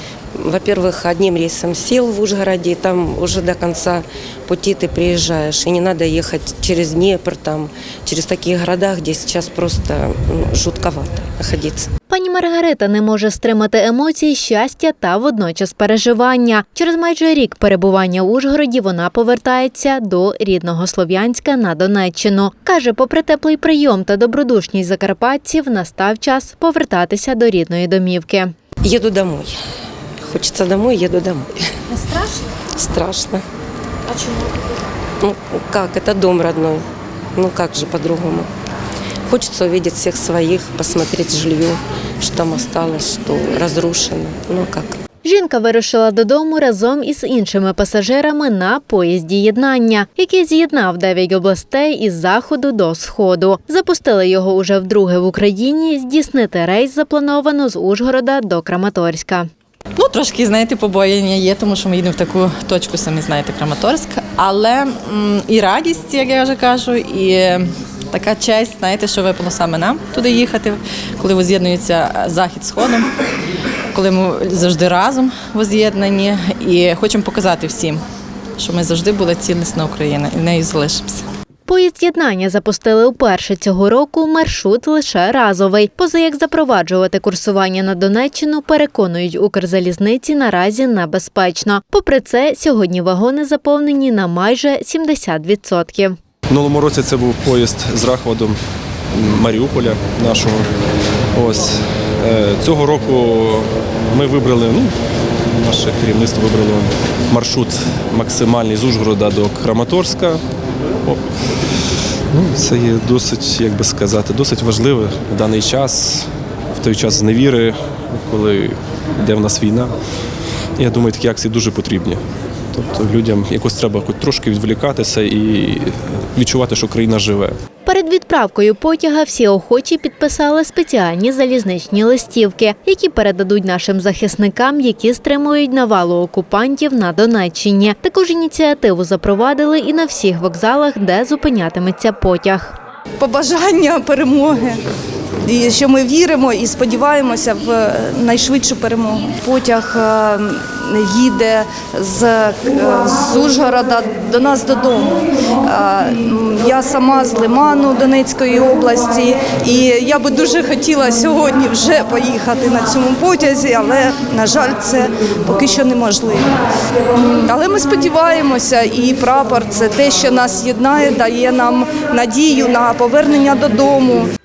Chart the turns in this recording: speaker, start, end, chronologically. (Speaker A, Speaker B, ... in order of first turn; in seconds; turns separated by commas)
Speaker A: 0.4-11.9, Speaker B: 12.1-28.5, Speaker A: 28.8-29.6, Speaker A: 30.3-33.4, Speaker A: 34.1-34.5, Speaker A: 35.2-36.9, Speaker A: 37.4-38.5, Speaker A: 39.3-45.0, Speaker B: 45.2-59.5, Speaker C: 60.0-73.1, Speaker C: 73.9-78.0, Speaker C: 78.6-81.2, Speaker B: 81.7-96.2, Speaker D: 96.5-98.6, Speaker D: 99.1-100.7, Speaker D: 101.3-110.4, Speaker D: 112.3-120.0, Speaker D: 120.8-122.2, Speaker D: 122.7-127.5, Speaker B: 127.8-142.8, Speaker E: 143.2-144.8, Speaker E: 145.4-166.5, Speaker E: 167.5-174.3